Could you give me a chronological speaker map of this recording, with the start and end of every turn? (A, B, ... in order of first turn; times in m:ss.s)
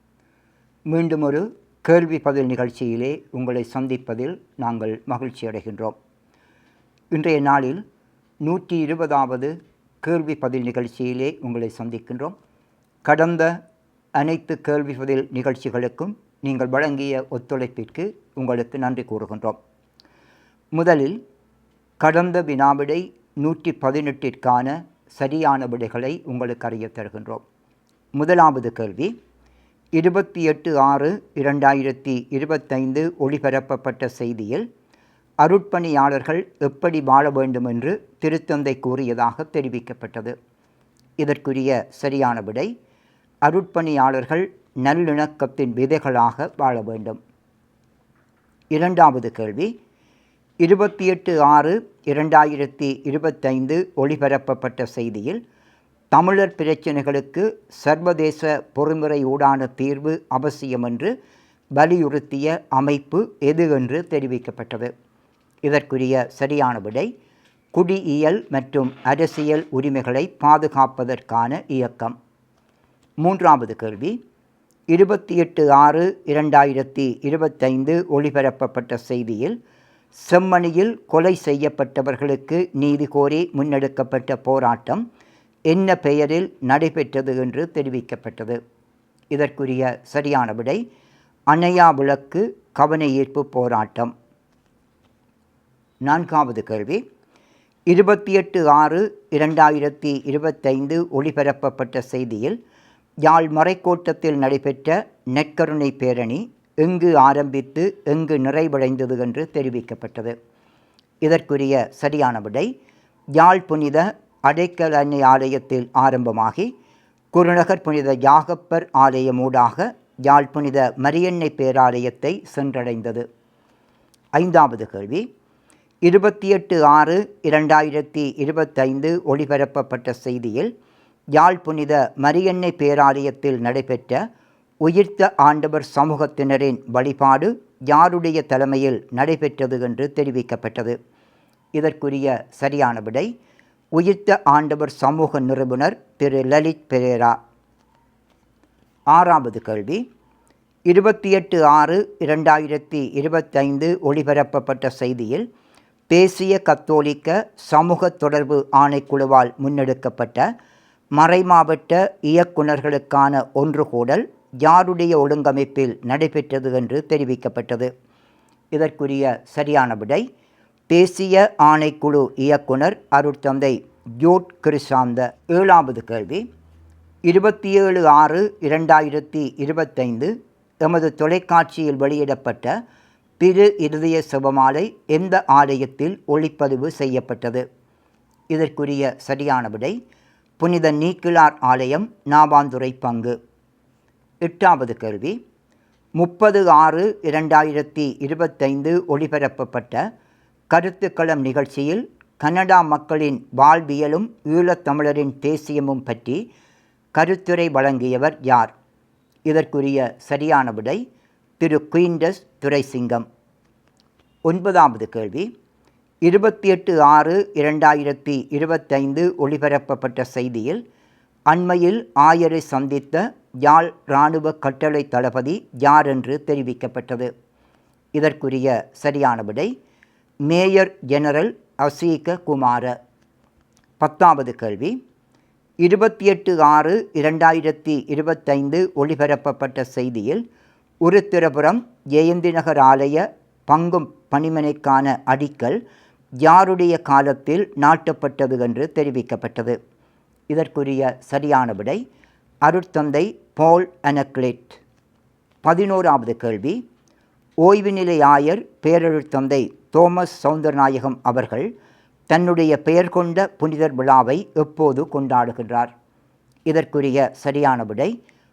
0:00.9-0:05.9 A
0:07.1-0:07.8 A
0:08.4-0:12.3 A
0:13.0-0:13.5 A
0:14.2-0:19.6 A
0:20.7-0:21.2 A
0:22.0-0:27.4 A
0:28.2-0:29.1 A
0:30.0-0:34.6 A
0:35.4-0:40.3 A
0:41.2-0:42.7 A
0:43.4-0:47.2 A
0:48.7-0:49.7 A
0:50.6-0:55.4 A
0:56.1-1:01.1 A
1:01.8-1:04.9 A
1:05.6-1:07.1 A
1:07.7-1:12.2 A
1:13.2-1:14.2 A
1:14.9-1:19.6 A
1:20.2-1:25.0 A
1:25.7-1:28.6 A
1:29.3-1:30.8 A
1:31.5-1:34.1 A
1:36.0-1:37.0 A
1:37.9-1:42.6 A
1:43.2-1:50.3 A
1:51.2-1:52.7 A
1:53.4-1:56.7 A
1:57.3-2:03.2 A
2:04.4-2:05.2 A
2:06.0-2:10.7 A
2:11.3-2:14.2 A
2:14.8-2:21.0 A
2:21.7-2:23.3 A
2:24.0-2:27.4 A
2:29.1-2:30.0 A
2:30.9-2:35.4 A
2:36.1-2:40.4 A
2:41.2-2:47.9 A
2:48.7-2:50.2 A
2:50.9-2:56.4 A
2:57.2-3:00.3 A
3:00.8-3:02.8 A
3:03.4-3:07.6 A
3:08.5-3:10.0 A
3:10.6-3:13.4 A
3:14.4-3:15.4 A
3:16.2-3:20.0 A
3:20.7-3:26.4 A
3:27.1-3:28.7 A
3:29.5-3:31.0 A
3:31.6-3:33.2 A
3:34.5-3:35.5 A
3:36.2-3:40.8 A
3:41.5-3:47.3 A
3:48.1-3:49.7 A
3:50.4-3:52.9 A
3:54.0-3:54.9 A
3:55.8-4:00.4 A
4:01.0-4:05.8 A
4:06.4-4:09.8 A
4:10.5-4:12.0 A
4:12.6-4:14.8 A
4:15.6-4:16.8 A
4:17.6-4:21.7 A
4:22.3-4:25.9 A
4:26.7-4:28.1 A